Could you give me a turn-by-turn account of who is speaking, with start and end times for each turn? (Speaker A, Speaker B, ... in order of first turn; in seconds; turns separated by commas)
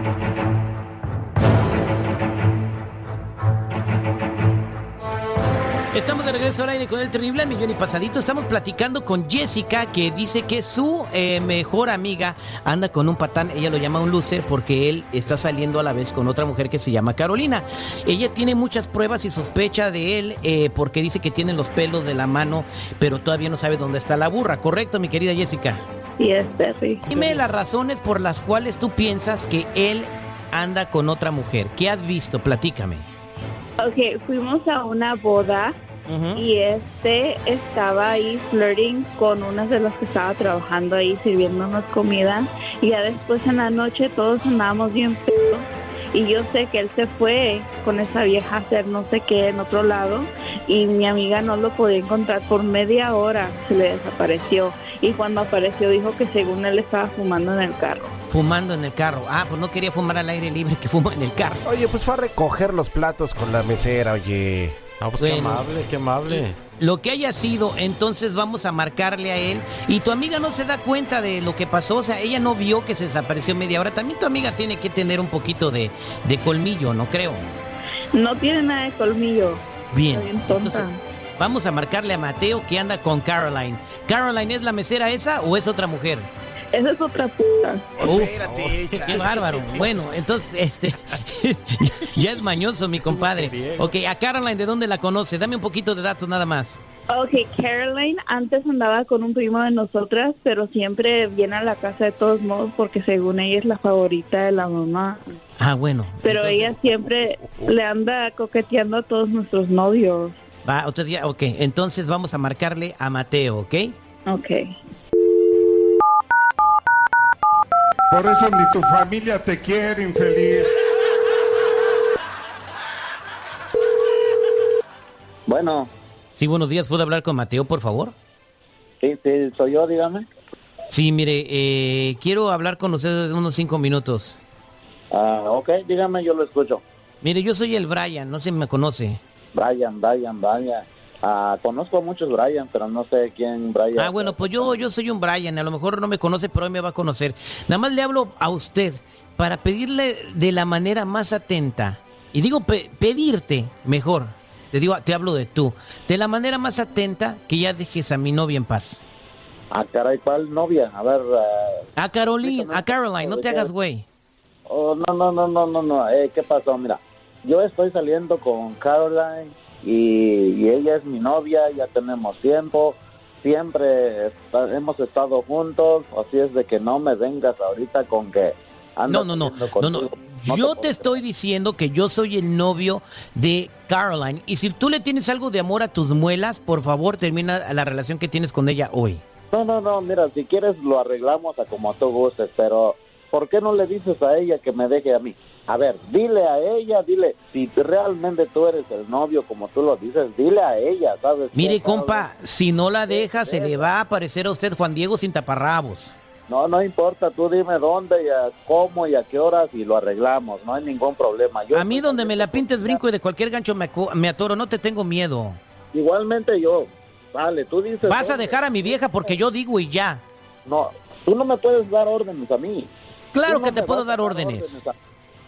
Speaker A: 5.9-25.8, Speaker B: 26.2-27.0, Speaker A: 27.1-33.1, Speaker C: 27.1-27.4, Speaker B: 33.8-35.7, Speaker A: 36.1-36.4, Speaker B: 36.3-58.1, Speaker A: 58.3-61.6, Speaker D: 61.6-64.8, Speaker C: 65.0-66.6, Speaker A: 65.2-65.7, Speaker A: 66.3-77.4, Speaker B: 78.1-81.0, Speaker A: 79.9-80.8, Speaker A: 81.4-86.3, Speaker B: 86.7-87.9, Speaker D: 88.0-89.7, Speaker A: 88.0-88.4, Speaker C: 88.4-89.9, Speaker A: 89.0-96.8, Speaker C: 93.0-93.9, Speaker B: 97.1-105.2, Speaker A: 105.6-106.8, Speaker B: 106.2-110.4, Speaker A: 110.6-114.0, Speaker B: 114.3-114.6, Speaker E: 118.1-120.7, Speaker F: 125.5-125.9, Speaker A: 126.3-128.1, Speaker F: 129.0-130.3, Speaker A: 130.9-134.4, Speaker F: 135.1-136.8, Speaker A: 137.2-139.2, Speaker F: 139.5-144.8, Speaker A: 143.9-159.0, Speaker F: 159.7-161.8, Speaker A: 161.9-164.0, Speaker F: 162.4-163.7, Speaker F: 164.7-181.2, Speaker A: 179.1-189.2, Speaker F: 189.5-202.3, Speaker A: 201.5-206.1, Speaker F: 203.1-203.9, Speaker F: 206.5-213.0, Speaker A: 211.7-215.6, Speaker F: 215.9-219.4, Speaker A: 218.1-220.2, Speaker F: 220.6-222.9, Speaker A: 223.3-224.8, Speaker F: 223.5-224.9